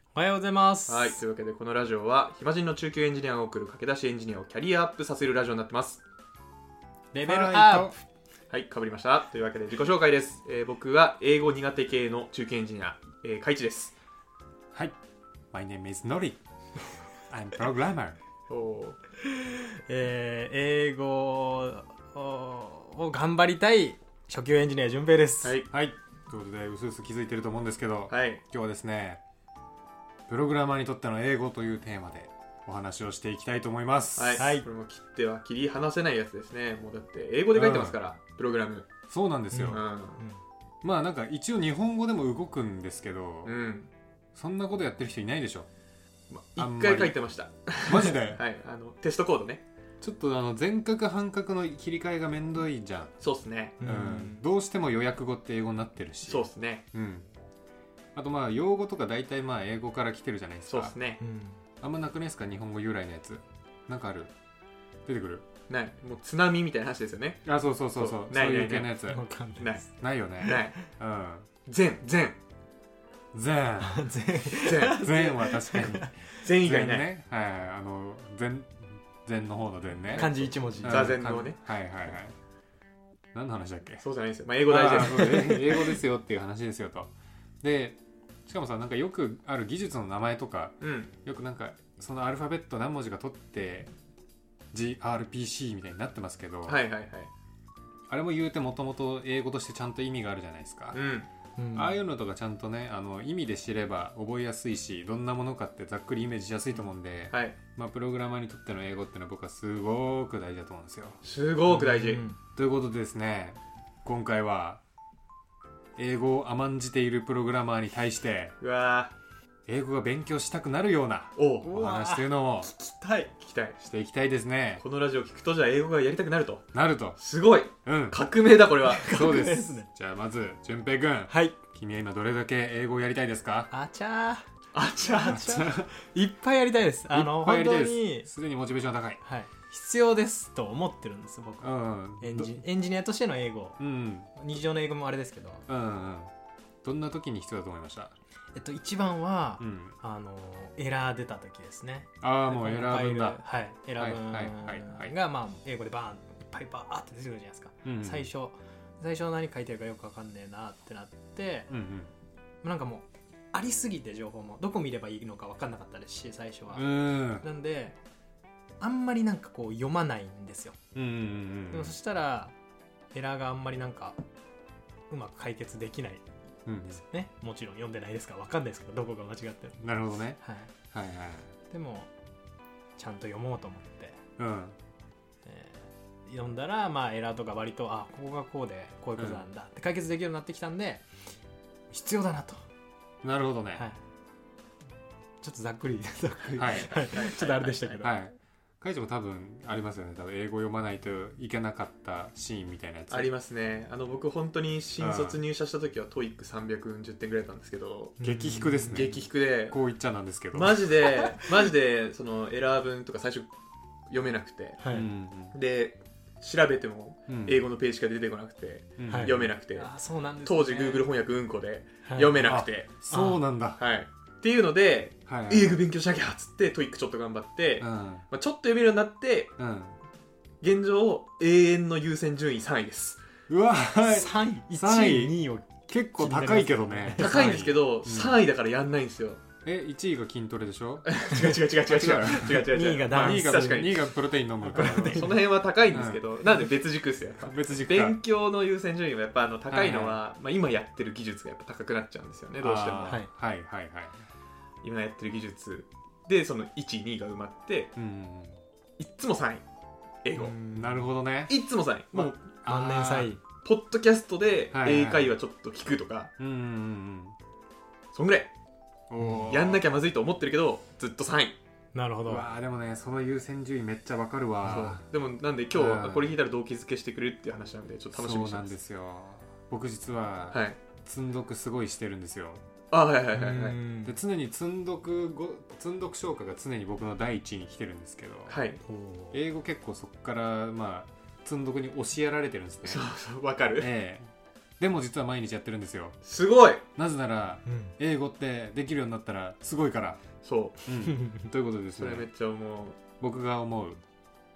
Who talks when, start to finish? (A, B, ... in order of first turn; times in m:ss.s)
0:00.2-0:01.2 A
0:00.9-0:06.0 B
0:07.1-0:08.0 A
0:07.2-0:08.0 C
0:08.5-0:13.9 B
0:15.5-0:16.4 C
0:17.3-0:18.2 C
0:18.5-0:19.0 B
0:19.2-0:25.6 A
0:25.4-0:25.7 B
0:25.7-0:29.2 C
0:28.1-0:28.4 B
0:30.3-0:34.4 C
0:34.2-0:38.9 B
0:34.4-0:34.7 A
0:37.5-0:38.0 C
0:39.1-0:39.8 C
0:39.5-0:40.4 A
0:39.7-0:40.2 B
0:40.8-0:43.6 C
0:43.4-0:43.9 B
0:44.4-0:45.7 C
0:46.3-0:49.6 B
0:46.6-0:47.2 C
0:47.9-0:48.4 C
0:50.0-0:53.1 C
0:53.2-0:53.8 B
0:53.8-0:54.4 A
0:53.8-0:57.3 C
0:56.3-0:56.8 B
0:58.2-1:01.0 C
1:00.7-1:01.2 B
1:01.2-1:01.6 A
1:01.8-1:04.3 C
1:05.1-1:05.5 C
1:05.7-1:08.9 B
1:07.4-1:09.2 C
1:09.1-1:09.8 A
1:09.6-1:09.8 B
1:09.9-1:11.5 C
1:10.4-1:10.8 B
1:11.7-1:12.4 B
1:13.3-1:14.1 C
1:13.8-1:16.3 A
1:14.6-1:15.2 B
1:14.8-1:22.4 C
1:16.4-1:17.1 B
1:20.1-1:21.2 A
1:20.8-1:21.6 B
1:23.3-1:24.0 C
1:24.0-1:25.6 B
1:24.7-1:33.9 C
1:25.2-1:26.0 A
1:30.8-1:31.1 B
1:34.7-1:36.8 C
1:36.7-1:37.3 B
1:38.1-1:41.0 C
1:40.9-1:41.3 B
1:41.6-1:42.0 A
1:41.7-1:51.2 C
1:47.3-1:47.6 B
1:51.2-1:52.2 B
1:51.7-1:52.4 A
1:52.6-1:54.8 C
1:56.0-1:58.6 C
1:58.6-1:59.1 B
1:59.7-2:02.7 C
2:01.4-2:01.7 B
2:01.6-2:03.3 A
2:03.4-2:03.8 B
2:03.8-2:04.8 C
2:04.8-2:09.4 B
2:06.7-2:07.2 C
2:07.8-2:08.2 C
2:08.9-2:09.9 A
2:09.1-2:13.7 C
2:11.3-2:11.6 A
2:13.7-2:14.5 A
2:14.7-2:15.4 B
2:15.0-2:18.3 A
2:15.3-2:15.9 C
2:17.1-2:19.2 C
2:19.2-2:23.8 A
2:21.6-2:22.6 C
2:23.8-2:24.3 C
2:24.4-2:25.6 A
2:25.7-2:26.3 C
2:26.8-2:28.2 C
2:28.6-2:41.7 A
2:29.6-2:30.0 C
2:32.2-2:33.4 C
2:34.0-2:35.1 C
2:37.8-2:38.3 C
2:41.7-2:42.1 C
2:42.6-2:48.0 A
2:46.7-2:47.5 C
2:48.8-2:50.8 A
2:51.0-2:52.0 C
2:51.7-2:52.5 A
2:53.1-2:54.2 A
2:55.1-2:56.2 A
2:56.7-2:57.0 C
2:57.0-2:59.8 A
2:59.8-3:00.4 C
3:00.4-3:00.7 A
3:00.9-3:01.5 C
3:01.7-3:02.1 A
3:03.0-3:04.2 A
3:04.4-3:04.8 C
3:05.4-3:11.1 A
3:09.2-3:09.4 C
3:11.9-3:12.6 A
3:13.2-3:13.8 C
3:13.8-3:14.0 A
3:15.4-3:18.1 A
3:16.6-3:17.0 C
3:16.6-3:18.1 B
3:18.0-3:23.3 C
3:23.1-3:28.2 B
3:25.0-3:25.4 C
3:28.2-3:29.1 A
3:28.2-3:30.9 C
3:28.9-3:29.8 B
3:30.5-3:33.5 B
3:34.1-3:34.8 B
3:34.8-3:35.1 A
3:34.9-3:35.6 C
3:35.5-3:39.9 B
3:37.3-3:37.6 C
3:39.0-3:39.5 C
3:39.1-3:41.1 A
3:40.4-3:42.9 B
3:42.0-3:43.4 A
3:42.4-3:43.8 C
3:43.8-3:49.6 B
3:45.3-3:45.8 C
3:47.8-3:48.3 C
3:49.6-3:50.0 C
3:50.6-3:53.2 B
3:53.5-3:58.4 C
3:54.0-3:57.6 A
3:57.2-3:59.4 B
3:59.6-4:01.2 C
4:01.0-4:04.1 B
4:01.8-4:05.4 C
4:02.2-4:04.1 A
4:04.6-4:05.4 A
4:04.8-4:13.2 B
4:05.9-4:06.2 C
4:07.4-4:08.2 C
4:09.7-4:10.2 C
4:12.6-4:14.3 C
4:14.8-4:17.9 B
4:18.0-4:18.6 C
4:19.0-4:19.6 B
4:20.2-4:20.6 B
4:20.4-4:21.0 A
4:20.7-4:23.4 C
4:21.5-4:22.4 B
4:22.6-4:23.4 A
4:23.6-4:26.3 B
4:24.7-4:25.3 C
4:26.4-4:27.4 C
4:28.1-4:28.5 B
4:29.1-4:29.8 C
4:29.2-4:29.5 A
4:29.5-4:31.6 B
4:31.9-4:32.5 A
4:32.3-4:35.0 C
4:34.6-4:38.8 B
4:35.7-4:36.4 C
4:38.1-4:42.6 C
4:40.5-4:40.8 B
4:42.9-4:43.8 B
4:43.4-4:44.2 A
4:44.0-4:48.6 C
4:48.5-4:48.8 B
4:48.8-4:49.4 A
4:49.3-4:53.0 C
4:52.8-4:53.9 B
4:53.8-4:56.2 C
4:56.2-4:56.8 B
4:57.0-5:00.2 C
4:57.7-4:58.0 A
5:00.4-5:00.8 B
5:00.8-5:02.3 C
5:02.0-5:03.0 B
5:03.2-5:04.0 C